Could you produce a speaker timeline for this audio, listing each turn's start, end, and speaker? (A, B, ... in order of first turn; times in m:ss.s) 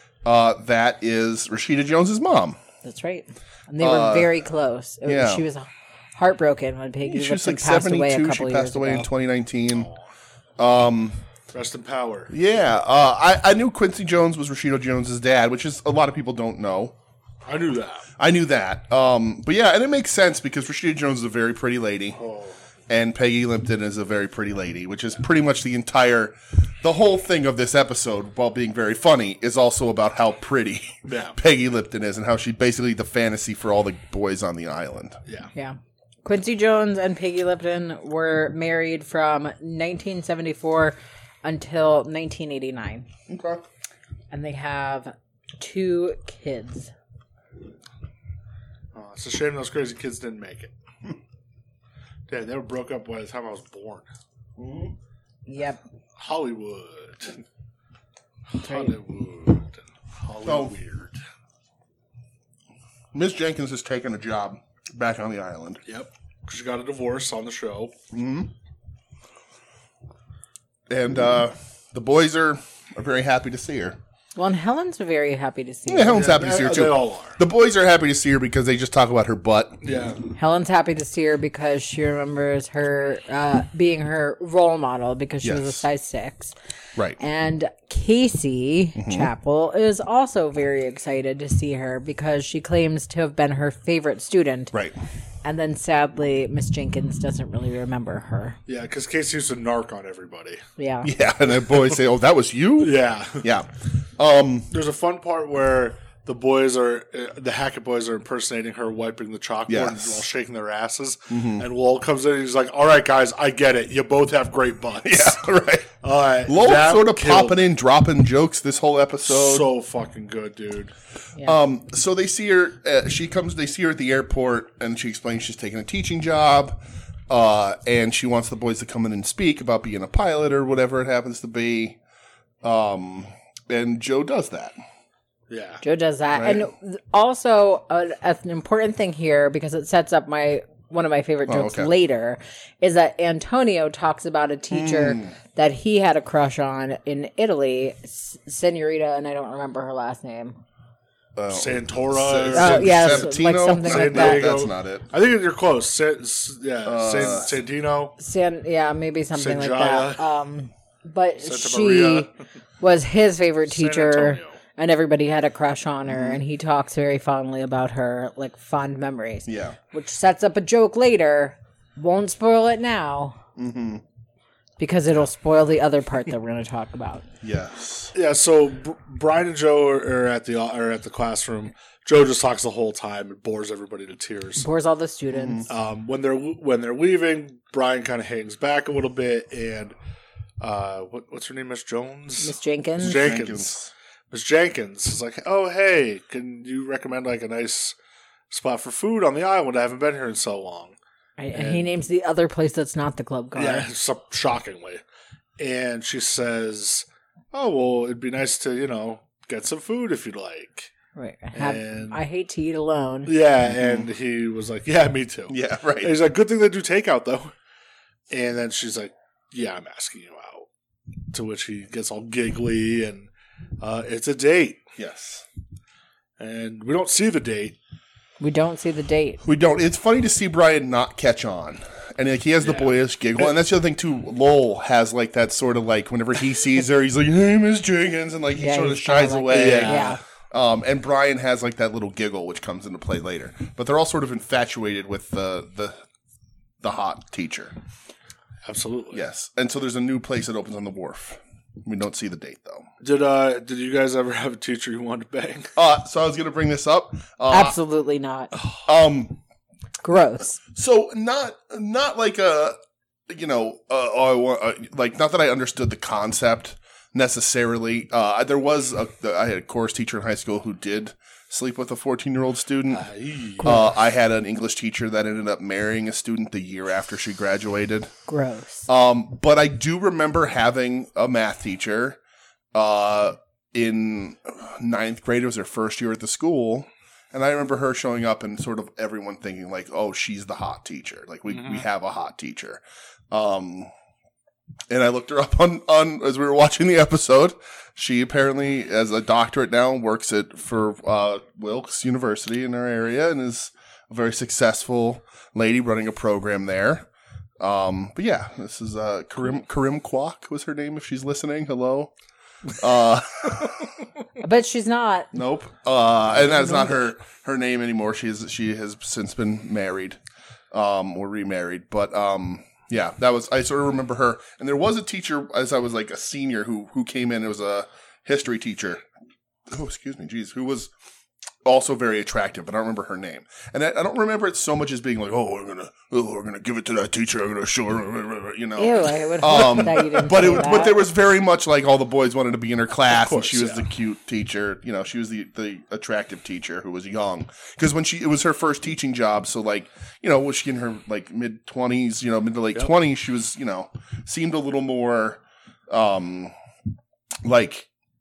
0:00.2-0:02.6 A
0:02.8-0:09.1 B
0:03.8-0:04.4 A
0:05.0-0:05.4 A
0:07.0-0:09.9 A
0:09.7-0:10.0 C
0:10.6-0:11.2 A
0:11.5-0:12.3 C
0:12.3-0:16.9 A
0:17.4-0:18.1 C
0:18.2-0:22.2 A
0:22.2-0:22.5 C
0:22.9-0:35.2 A
0:31.1-0:31.4 C
0:35.6-0:43.1 B
0:43.3-0:43.6 A
0:44.3-0:46.9 B
0:48.9-0:50.7 C
0:52.3-0:54.1 C
0:54.6-0:54.9 A
0:55.5-0:55.8 B
0:56.2-0:57.4 C
0:58.5-1:01.2 C
0:58.6-0:58.9 B
1:00.4-1:00.7 A
1:03.1-1:05.8 A
1:05.9-1:08.0 C
1:08.1-1:08.5 A
1:10.9-1:14.0 A
1:14.4-1:16.2 B
1:15.9-1:19.8 A
1:16.1-1:17.4 C
1:19.8-1:20.2 C
1:20.4-1:26.6 B
1:25.4-1:25.8 A
1:27.2-1:34.7 B
1:29.0-1:29.3 A
1:35.4-1:38.6 B
1:38.7-1:40.6 C
1:40.8-1:41.1 B
1:41.0-1:44.7 A
1:42.8-1:43.5 C
1:44.7-1:55.4 C
1:49.7-1:50.3 A
1:51.3-1:51.7 A
1:55.0-1:55.9 A
1:56.0-1:57.6 C
1:56.5-1:59.7 A
1:59.2-2:00.9 C
2:01.4-2:12.0 A
2:12.6-2:14.8 A
2:15.5-2:15.8 C
2:15.8-2:30.6 B
2:16.3-2:16.7 A
2:21.5-2:21.9 A
2:24.7-2:25.3 A
2:31.4-2:35.1 A
2:31.5-2:33.3 C
2:32.6-2:34.5 B
2:33.8-2:38.2 C
2:36.8-2:37.5 A
2:38.2-2:42.3 B
2:39.4-2:40.3 C
2:41.4-2:42.3 C
2:42.8-2:53.4 B
2:43.7-2:44.6 C
2:46.1-2:46.4 A
2:49.5-2:49.8 A
2:53.6-2:54.0 A
2:54.8-2:57.2 B
2:57.4-2:58.1 A
2:58.1-3:04.7 C
3:04.6-3:05.7 B
3:05.3-3:05.6 A
3:05.7-3:10.0 C
3:10.6-3:13.8 C
3:12.4-3:13.2 B
3:13.0-3:13.9 A
3:14.3-3:18.0 C
3:18.5-3:21.0 C
3:21.4-3:23.9 B
3:21.5-3:21.9 C
3:23.6-3:25.0 C
3:25.6-3:30.9 C
3:31.2-3:33.3 B
3:31.5-3:32.2 C
3:33.3-3:37.5 C
3:33.7-3:34.1 A
3:35.5-3:36.2 A
3:38.3-3:40.7 C
3:41.3-3:43.3 C
3:43.8-3:44.8 C
3:45.0-3:45.4 A
3:46.4-3:47.8 C
3:48.4-3:49.4 B
3:49.4-4:06.0 A
3:52.6-3:53.5 C
3:58.6-4:00.2 B
3:59.5-4:00.2 C
4:06.8-4:07.7 A
4:08.6-4:09.2 C
4:09.1-4:12.9 A
4:13.0-4:15.7 C
4:15.8-4:17.8 A
4:17.5-4:18.5 B
4:18.8-4:19.4 A
4:20.0-4:20.6 B
4:20.7-4:22.8 A
4:23.3-4:33.0 A
4:32.9-4:33.8 C
4:33.6-4:38.1 A
4:38.3-4:38.9 B
4:38.9-4:42.2 A
4:42.7-4:53.9 A
4:51.6-4:51.8 C
4:54.9-5:07.1 A
5:07.6-5:12.1 A
5:12.7-5:13.9 A
5:14.4-5:15.3 B
5:15.3-5:20.2 A
5:20.7-5:29.0 A
5:29.7-5:30.9 A
5:31.6-5:56.5 A
5:38.8-5:41.0 B
5:43.1-5:43.9 C
5:57.4-5:57.9 A